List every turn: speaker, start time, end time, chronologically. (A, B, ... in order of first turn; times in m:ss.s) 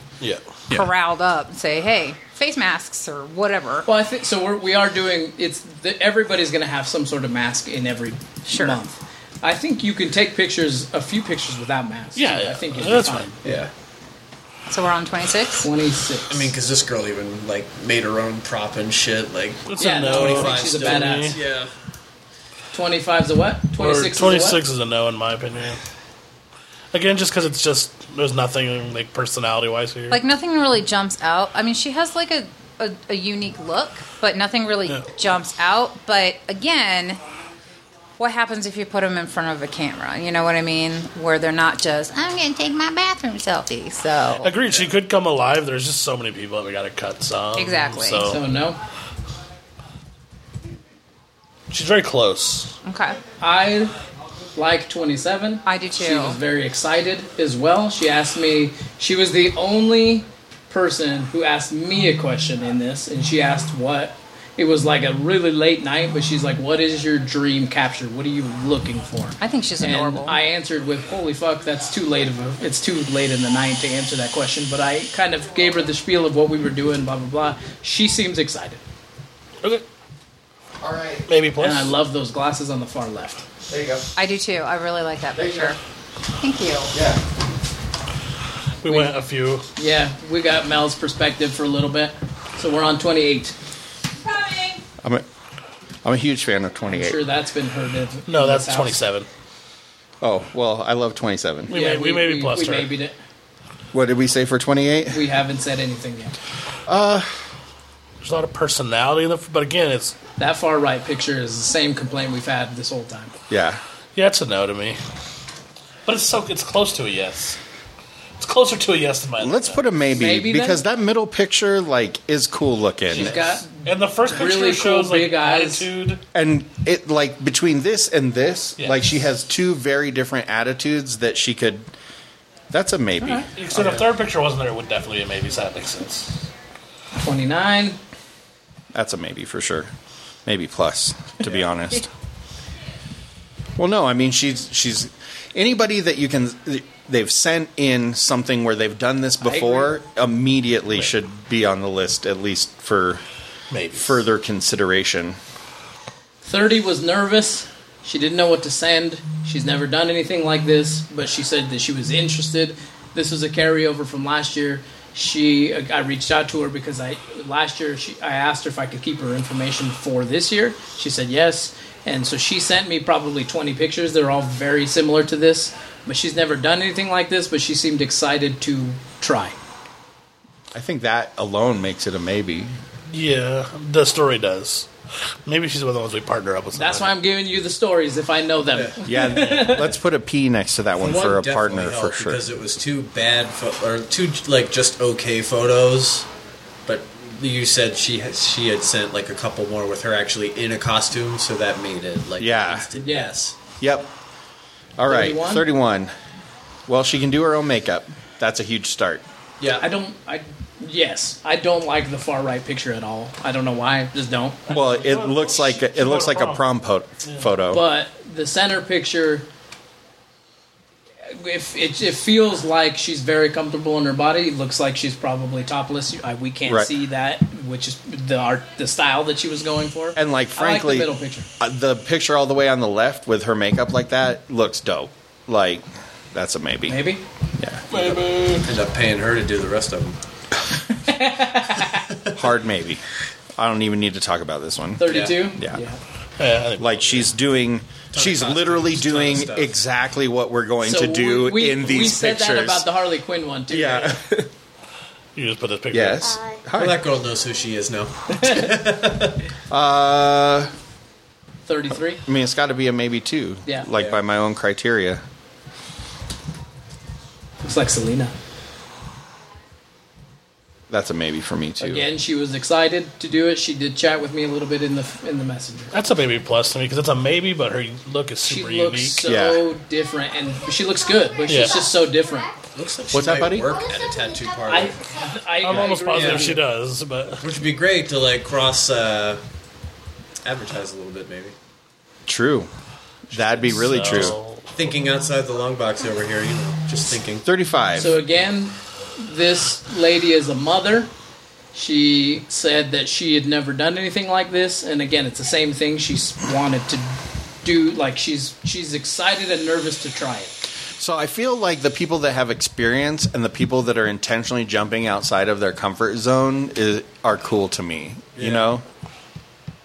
0:00.2-0:00.6 A
0:00.7-0:03.9 B
0:03.8-0:13.4 C
0:08.5-0:08.8 B
0:12.2-0:13.4 A
0:13.4-0:13.7 D
0:14.7-0:15.7 B
0:15.6-0:16.5 C
0:16.3-0:21.7 D
0:19.7-0:21.4 A
0:19.8-0:21.4 C
0:22.7-0:24.6 C
0:23.8-0:25.8 A
0:26.9-0:30.2 A
0:30.1-0:37.2 B
0:38.2-0:44.6 B
0:44.4-0:48.4 A
0:47.6-0:48.3 B
0:48.2-0:48.8 C
0:51.7-0:52.8 A
0:52.8-0:53.2 B
0:53.4-0:53.9 C
0:54.6-1:18.8 C
0:55.7-0:56.4 B
1:09.4-1:10.4 B
1:20.8-1:21.3 E
1:21.3-1:21.9 A
1:21.6-1:23.4 C
1:23.7-1:24.1 E
1:24.2-1:25.8 B
1:25.4-1:25.8 E
1:26.4-1:27.0 B
1:26.9-1:27.2 E
1:28.8-1:29.6 A
1:28.9-1:29.1 C
1:29.8-1:33.6 C
1:34.2-1:34.8 B
1:36.0-1:37.2 E
1:36.9-1:39.0 C
1:38.3-1:39.3 A
1:40.2-1:41.7 E
1:41.7-1:43.0 A
1:41.7-1:43.2 C
1:43.9-1:45.2 E
1:45.1-1:46.4 C
1:46.9-1:47.3 E
1:48.2-1:50.2 A
1:50.4-1:53.3 C
1:53.5-1:53.8 E
1:54.2-1:55.0 A
1:56.1-1:57.6 A
1:58.4-1:59.8 A
1:59.4-2:03.6 E
2:00.1-2:00.8 C
2:03.1-2:05.9 C
2:03.2-2:06.2 A
2:06.3-2:11.9 E
2:08.8-2:09.1 A
2:12.7-2:14.1 E
2:13.3-2:16.3 A
2:17.1-2:18.0 C
2:18.9-2:19.9 E
2:20.5-2:22.1 E
2:23.8-2:33.2 E
2:29.4-2:30.0 C
2:33.7-2:34.2 A
2:33.9-2:35.4 E
2:36.4-2:59.6 C
3:00.7-3:02.8 E
3:03.1-3:04.9 A
3:05.4-3:07.1 A
3:06.7-3:09.9 C
3:08.7-3:09.0 D
3:09.0-3:12.4 E
3:11.0-3:16.3 D
3:16.9-3:23.6 D
3:22.4-3:22.9 E
3:23.0-3:23.3 C
3:23.8-3:24.1 E
3:25.0-3:26.1 E
3:25.1-3:25.7 C
3:26.9-3:29.2 E
3:29.6-3:29.9 D
3:29.8-3:34.6 C
3:34.7-3:36.6 A
3:34.7-3:37.8 E
3:37.2-3:37.5 A
3:37.7-3:39.5 C
3:41.3-3:51.5 C
3:46.7-3:46.9 E
3:50.2-3:57.0 E
3:56.9-3:57.2 C
3:57.6-3:58.2 E
3:57.9-3:58.7 A
3:58.6-4:00.2 D
4:00.9-4:02.1 C
4:02.4-4:03.0 E
4:03.6-4:05.8 E
4:05.0-4:06.0 C
4:05.0-4:05.5 D
4:06.4-4:07.3 A
4:06.8-4:12.9 E
4:08.1-4:09.8 D
4:10.8-4:14.2 C
4:13.7-4:14.5 E
4:15.4-4:16.3 A
4:15.9-4:17.0 E
4:16.7-4:19.5 D
4:18.3-4:18.7 C
4:19.7-4:20.7 E
4:21.7-4:22.2 C
4:22.2-4:25.2 E
4:23.9-4:24.2 D
4:27.6-4:28.3 C
4:30.9-4:32.1 E
4:31.8-4:36.0 C
4:35.9-4:39.3 A
4:38.4-4:42.5 C
4:39.2-4:39.7 E
4:41.5-4:41.9 A
4:42.7-4:45.0 D
4:43.1-4:43.8 E
4:44.7-4:46.6 C
4:45.6-4:47.5 A
4:46.1-4:46.5 D
4:47.4-4:49.4 D
4:50.4-4:51.6 D
4:52.3-4:52.7 E
4:53.3-4:54.4 E
4:53.4-4:54.7 A
4:54.7-4:57.5 D
4:57.4-4:58.1 E
4:58.0-5:01.1 C
5:01.7-5:07.1 C
5:07.6-5:10.5 C
5:11.0-5:18.8 E
5:18.4-5:18.7 D